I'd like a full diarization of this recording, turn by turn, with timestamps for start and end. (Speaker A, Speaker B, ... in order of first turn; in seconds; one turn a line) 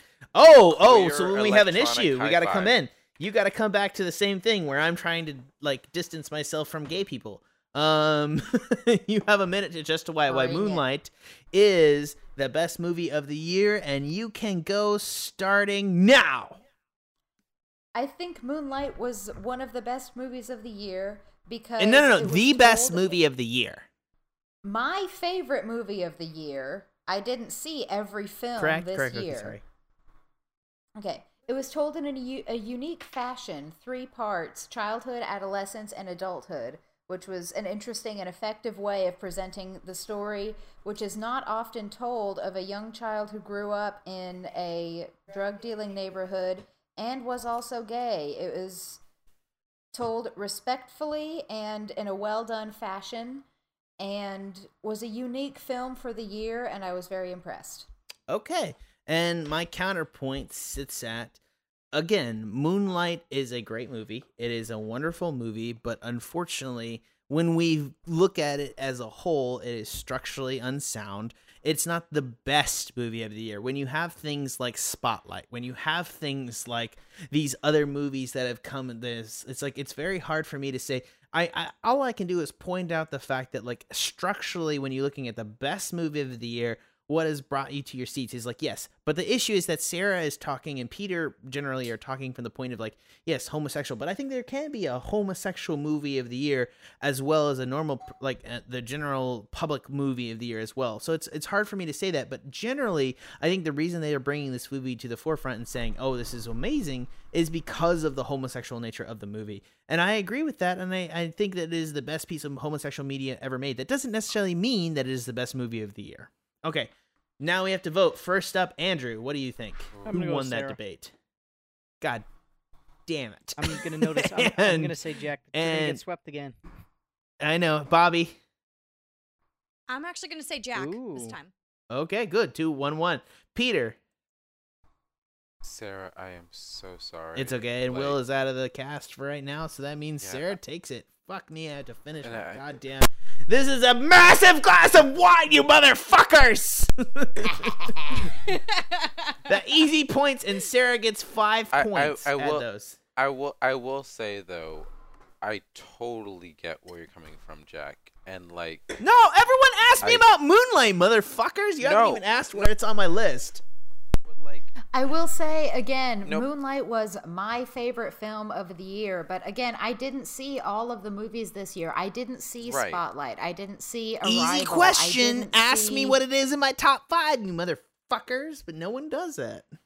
Speaker A: 0.3-16.6
Speaker B: 0.7-2.7
Speaker C: 10.3-10.8
Speaker C: 17.9-23.2
Speaker A: 21.8-23.9
Speaker C: 24.6-29.6
Speaker A: 28.6-29.6
Speaker C: 30.9-49.0
Speaker C: 49.9-53.4
Speaker C: 54.0-57.9
Speaker A: 58.3-61.4
Speaker A: 61.9-121.1
Speaker B: 119.9-120.2
Speaker D: 120.0-120.8
Speaker A: 123.1-125.0
Speaker D: 123.6-126.5
Speaker A: 125.5-126.0
Speaker A: 127.4-128.4
Speaker E: 129.9-131.5
Speaker D: 130.7-131.4
Speaker A: 131.9-134.0
Speaker B: 135.6-138.2
Speaker A: 137.3-147.9
Speaker B: 140.2-140.6
Speaker B: 142.2-142.7
Speaker C: 147.5-148.3
Speaker E: 148.4-149.3
Speaker A: 149.4-153.0
Speaker B: 151.7-154.9
Speaker B: 155.4-159.0
Speaker A: 159.0-163.6
Speaker B: 160.0-160.2
Speaker B: 161.8-162.7
Speaker B: 164.2-164.7
Speaker C: 164.9-176.2
Speaker B: 172.6-173.0
Speaker A: 174.2-179.7